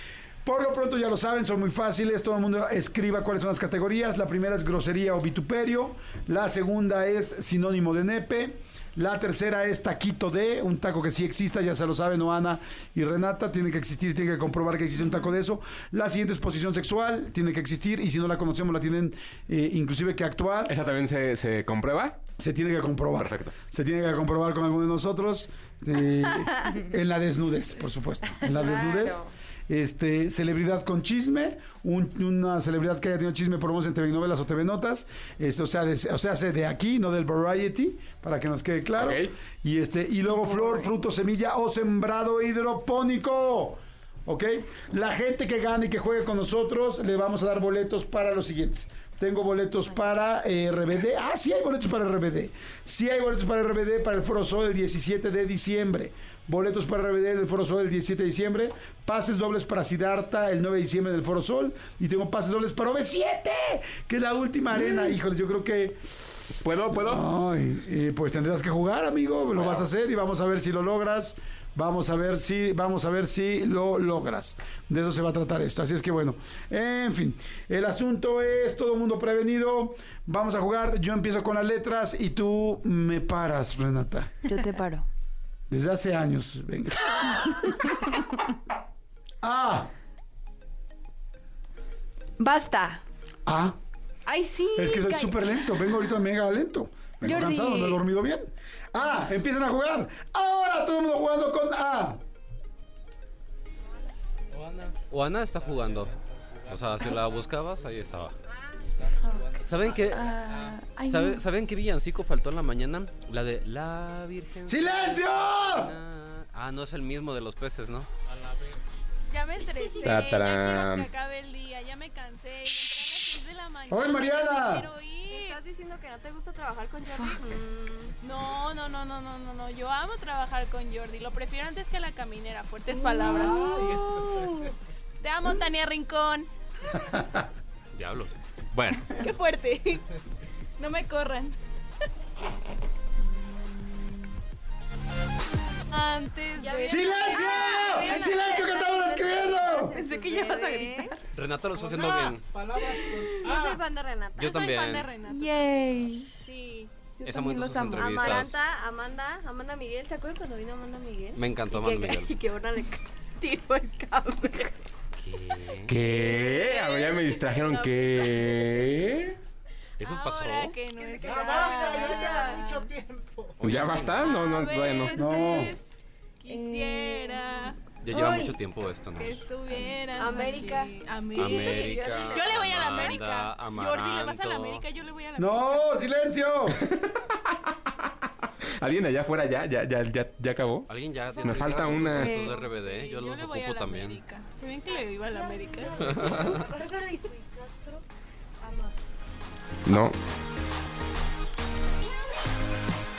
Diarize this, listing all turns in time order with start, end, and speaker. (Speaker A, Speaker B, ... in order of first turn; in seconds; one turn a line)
Speaker A: 0.4-20.7
Speaker B: 20.7-22.2
Speaker A: 22.4-66.0
Speaker B: 23.1-23.5
Speaker B: 39.0-39.3
Speaker C: 40.4-40.8
Speaker B: 66.6-67.2
Speaker A: 67.0-84.4
Speaker C: 84.5-85.0
Speaker A: 85.7-87.8
Speaker A: 89.4-89.9
Speaker C: 92.4-93.0
Speaker A: 93.5-93.7
Speaker C: 94.2-95.6
Speaker A: 94.8-102.2
Speaker C: 97.2-98.0
Speaker D: 105.1-106.1
Speaker D: 106.7-108.3
Speaker C: 109.2-109.5
Speaker D: 109.6-110.3
Speaker C: 110.1-111.4
Speaker D: 111.1-118.1
Speaker A: 114.7-115.9
Speaker E: 119.3-125.6
Speaker B: 120.0-121.1
Speaker A: 123.9-124.9
Speaker F: 125.3-128.1
Speaker E: 127.1-127.4
Speaker E: 128.2-136.5
Speaker F: 133.6-133.8
Speaker D: 137.9-139.1
Speaker E: 139.0-140.0
Speaker E: 140.8-141.6
Speaker E: 145.9-148.8
Speaker F: 146.7-151.2
Speaker A: 146.9-149.9
Speaker C: 149.8-151.2
Speaker D: 151.3-152.4
Speaker A: 152.0-152.3
Speaker C: 152.8-153.7
Speaker F: 153.2-154.4
Speaker D: 154.3-155.1
Speaker E: 154.4-155.7
Speaker C: 155.2-156.3
Speaker E: 156.4-156.9
Speaker C: 157.2-158.5
Speaker D: 157.2-158.6
Speaker F: 158.0-164.6
Speaker D: 161.3-162.4
Speaker E: 163.5-163.9
Speaker D: 165.2-165.9
Speaker B: 165.8-169.4
Speaker E: 166.4-168.7
Speaker D: 170.0-170.8
Speaker E: 170.0-173.0
Speaker F: 171.1-172.7
Speaker D: 173.6-174.4
Speaker B: 173.6-175.3
Speaker E: 174.2-178.3
Speaker A: 175.1-175.8
Speaker C: 176.5-177.4
Speaker D: 178.0-179.4
Speaker C: 178.1-178.4
Speaker E: 179.1-186.0
Speaker F: 180.1-180.9
Speaker D: 181.3-184.8
Speaker F: 181.5-182.3
Speaker A: 185.3-186.8
Speaker B: 186.8-187.4
Speaker B: 188.8-192.4
Speaker D: 190.9-194.2
Speaker C: 192.1-192.5
Speaker E: 192.4-196.6
Speaker D: 196.0-196.6
Speaker F: 196.6-198.0
Speaker F: 198.6-198.9
Speaker B: 199.8-200.2